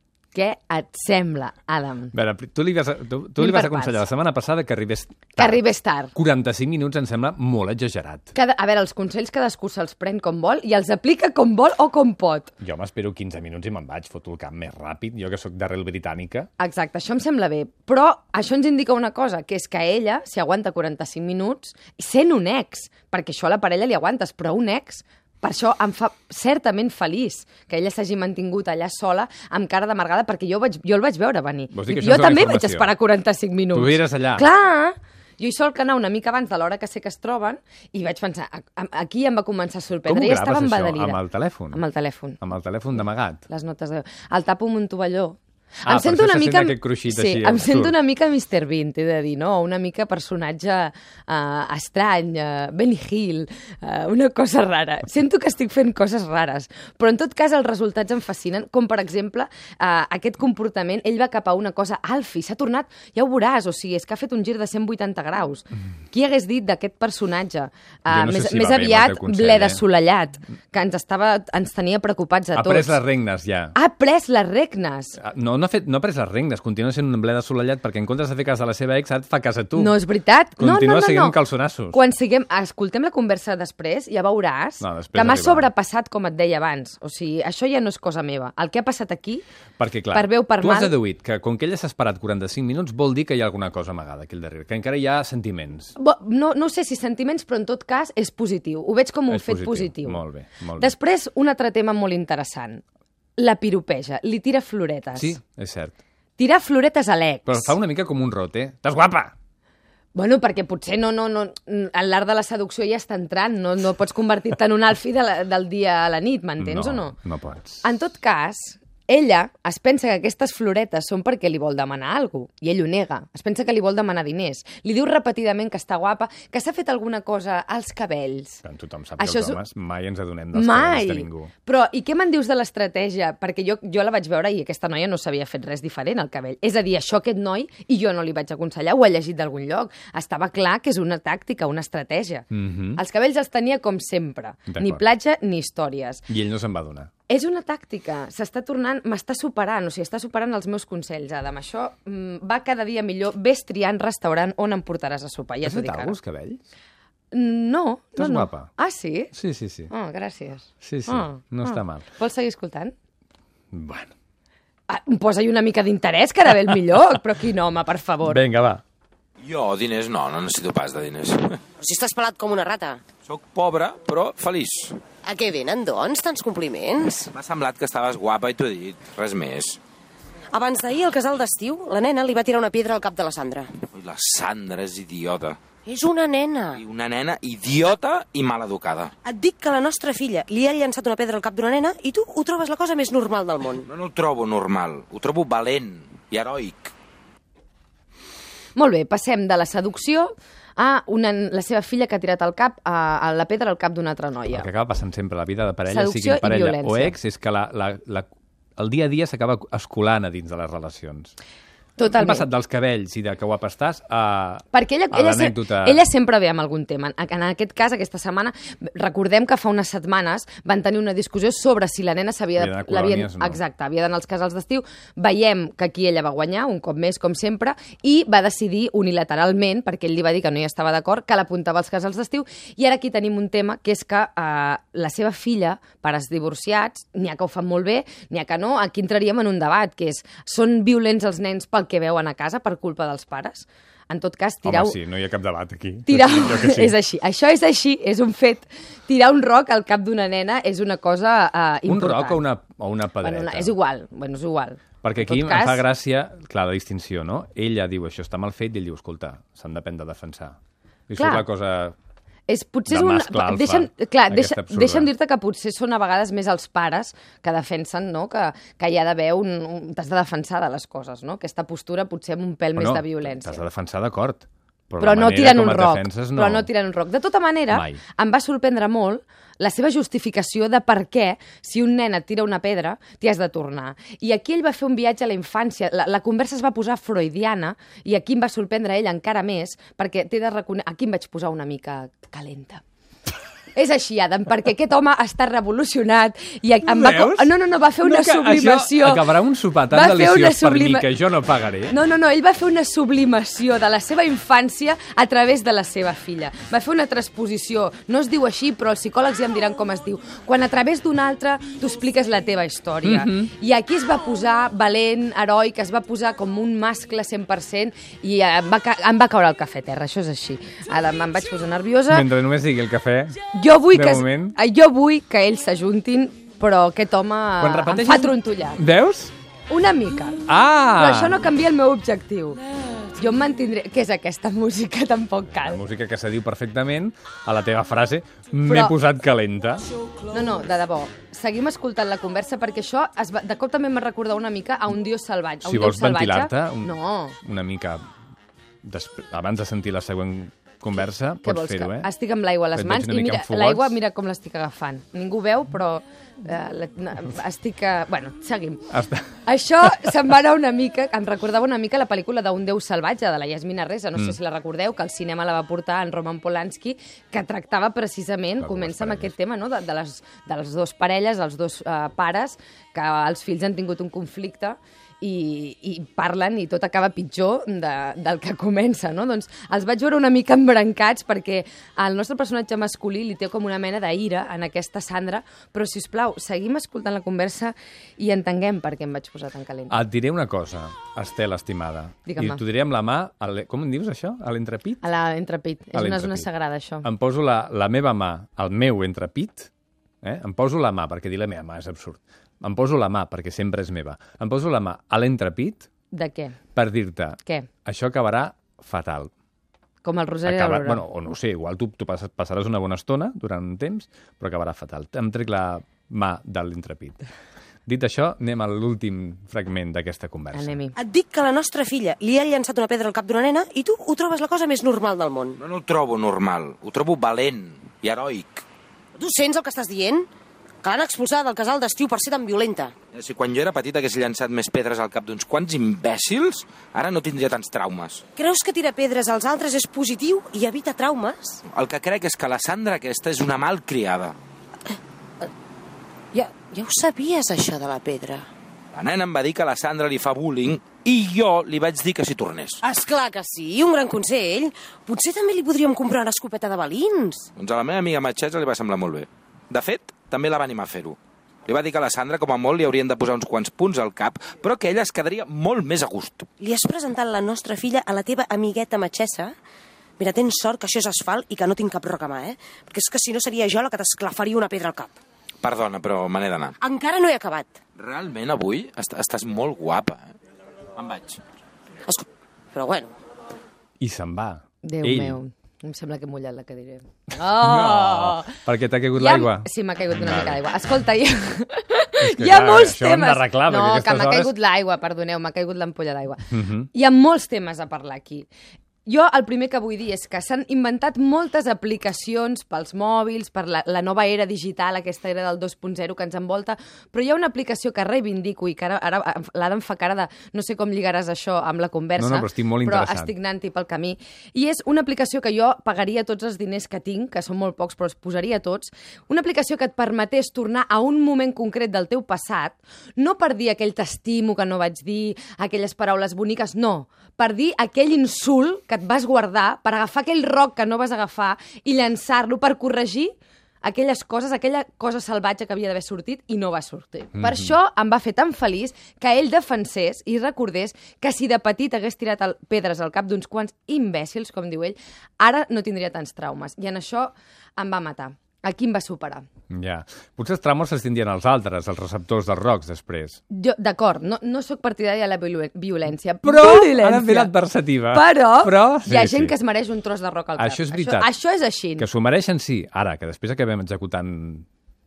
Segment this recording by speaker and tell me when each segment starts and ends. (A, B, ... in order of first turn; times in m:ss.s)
0:00.3-0:02.1 A
0:02.1-0:05.6 B
0:03.4-0:04.1 A
0:05.4-0:06.1 A
0:06.1-0:08.3 B
0:08.3-0:12.5 A
0:12.6-0:16.5 B
0:16.6-0:41.2 A
0:31.7-0:32.9 B
0:33.7-0:34.5 B
0:40.0-0:41.8 B
0:41.7-0:42.4 A
0:42.4-0:43.4 B
0:43.5-1:13.0 A
0:45.8-0:48.0 B
1:08.1-1:09.8 B
1:12.6-1:13.8 B
1:13.8-1:15.2 A
1:15.2-1:20.0 B
1:19.8-1:21.4 A
1:20.6-1:22.0 B
1:21.9-1:29.4 A
1:24.8-1:25.7 B
1:29.8-1:36.0 B
1:30.1-1:31.0 A
1:36.0-1:40.2 A
1:39.3-1:41.0 B
1:40.8-1:42.8 A
1:43.4-1:45.4 A
1:45.2-1:46.0 B
1:46.4-1:47.8 A
1:47.5-1:49.3 B
1:50.1-1:57.2 A
1:56.6-1:57.8 B
1:57.8-2:08.6 A
2:08.6-2:11.5 B
2:09.2-2:09.6 A
2:10.5-2:26.2 A
2:22.5-2:23.0 B
2:24.7-2:25.0 B
2:26.3-2:27.1 B
2:27.3-2:36.2 A
2:35.6-2:36.6 B
2:37.3-2:39.3 A
2:38.2-2:38.7 B
2:39.3-2:39.9 B
2:39.9-2:42.9 A
2:40.8-2:42.0 B
2:43.7-2:44.1 B
2:44.9-2:48.4 A
2:48.2-2:48.8 B
2:49.4-2:51.6 C
2:51.8-2:53.0 D
2:53.3-2:55.0 C
2:55.2-2:57.3 D
2:57.3-2:59.8 C
3:00.5-3:03.7 D
3:03.9-3:05.6 C
3:05.9-3:06.8 D
3:06.8-3:09.1 C
3:09.2-3:13.9 D
3:13.8-3:16.9 C
3:18.8-3:24.7 A
3:24.5-3:31.3 B
3:25.9-3:27.2 A
3:32.0-3:32.5 A
3:32.1-3:36.0 B
3:34.7-4:05.0 A
3:42.6-3:43.6 B
4:04.6-4:07.0 B
4:06.1-4:12.4 A
4:11.9-4:13.7 B
4:13.2-4:15.8 A
4:15.0-4:20.6 B
4:21.1-4:22.0 B
4:21.2-4:21.5 A
4:22.5-4:33.6 A
4:22.9-4:25.1 B
4:32.8-4:36.7 B
4:35.0-4:52.8 A
4:37.7-4:38.0 B
4:53.8-4:59.3 A
4:56.8-5:02.0 B
4:59.9-5:01.1 A
5:01.9-5:22.3 A
5:13.0-5:13.5 B
5:22.1-5:23.4 B
5:23.5-5:28.8 A
5:23.9-5:24.6 B
5:27.6-5:29.3 B
5:29.7-5:30.4 A
5:30.4-5:31.5 B
5:31.0-5:35.8 A
5:35.5-5:39.9 B
5:38.6-5:39.0 A
5:40.3-5:47.4 A
5:45.6-5:48.0 B
5:48.8-5:52.1 B
5:51.4-5:58.9 A
5:52.8-5:54.0 B
5:58.9-5:59.4 B
5:59.4-6:30.0 A
6:08.6-6:09.4 B
6:29.9-6:35.1 B
6:32.3-6:32.6 A
6:35.0-6:37.1 A
6:35.9-6:36.5 B
6:37.0-6:39.7 B
6:40.2-6:45.9 B
6:46.1-6:46.6 A
6:46.8-6:49.3 B
6:50.0-6:51.0 A
6:50.5-6:57.2 B
6:57.9-7:00.8 B
7:00.5-7:01.0 A
7:01.0-7:05.6 D
7:05.6-7:08.6 C
7:09.2-7:10.3 D
7:10.8-7:12.9 D
7:13.1-7:18.2 C
7:18.4-7:21.6 D
7:21.7-7:24.4 C
7:26.3-7:28.5 D
7:28.9-7:32.8 C
7:32.8-7:37.5 D
7:37.6-7:46.5 C
7:46.6-7:49.6 D
7:50.2-7:55.1 D
7:55.6-7:56.8 C
7:56.8-7:57.8 D
7:58.0-8:00.4 C
8:01.0-8:01.4 C
8:02.1-8:03.1 D
8:04.0-8:05.4 B
8:04.8-8:08.6 A
8:07.4-8:10.6 B
8:09.2-8:18.5 A
8:12.2-8:14.5 B
8:16.5-8:16.9 B
8:19.1-9:09.5 A
8:32.2-8:33.3 B
8:57.4-8:57.7 B
9:09.7-9:13.4 B
9:13.5-9:17.5 A
9:16.4-9:19.6 B
9:18.1-9:22.1 A
9:20.6-9:21.3 B
9:22.0-9:24.7 B